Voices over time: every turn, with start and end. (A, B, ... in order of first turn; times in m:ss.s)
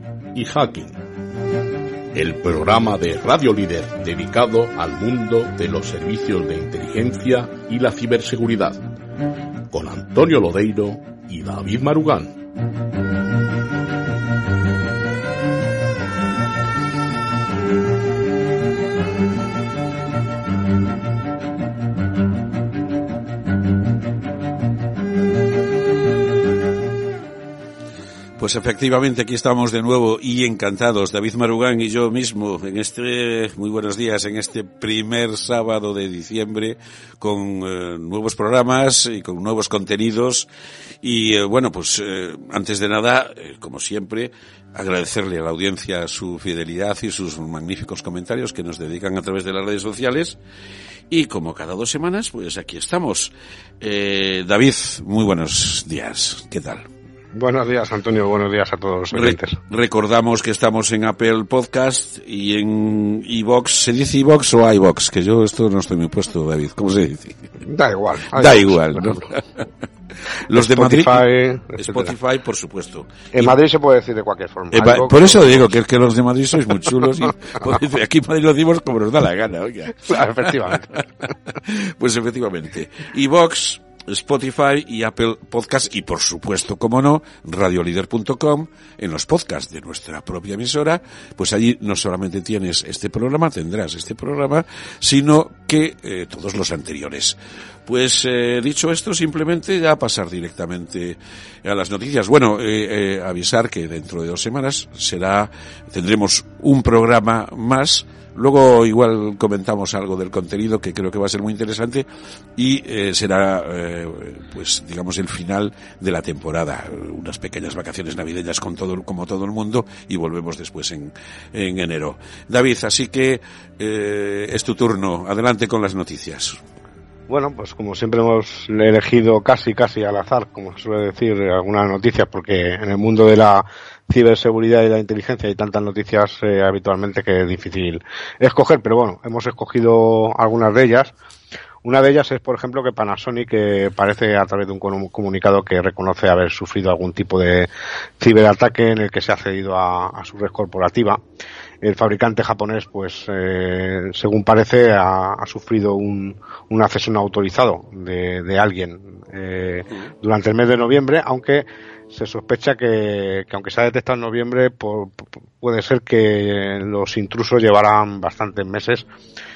0:00.3-0:01.0 A
0:02.1-0:08.8 A
0:09.7-0:12.3 A
0:28.4-0:40.5 B
0:41.0-0:50.4 B
0:51.1-0:56.8 B
0:57.3-0:59.6 C
0:59.1-1:07.5 B
1:07.6-1:09.2 C
1:08.3-1:09.4 B
1:10.5-1:11.2 B
1:10.5-1:12.1 C
1:11.8-1:13.5 B
1:13.3-1:15.7 C
1:14.7-1:20.5 B
1:20.1-1:21.0 C
1:21.6-1:37.4 B
1:37.9-1:52.0 B
1:52.6-2:06.6 B
2:07.3-2:21.1 C
2:21.8-2:27.7 C
2:28.2-2:31.2 C
2:31.8-2:49.1 C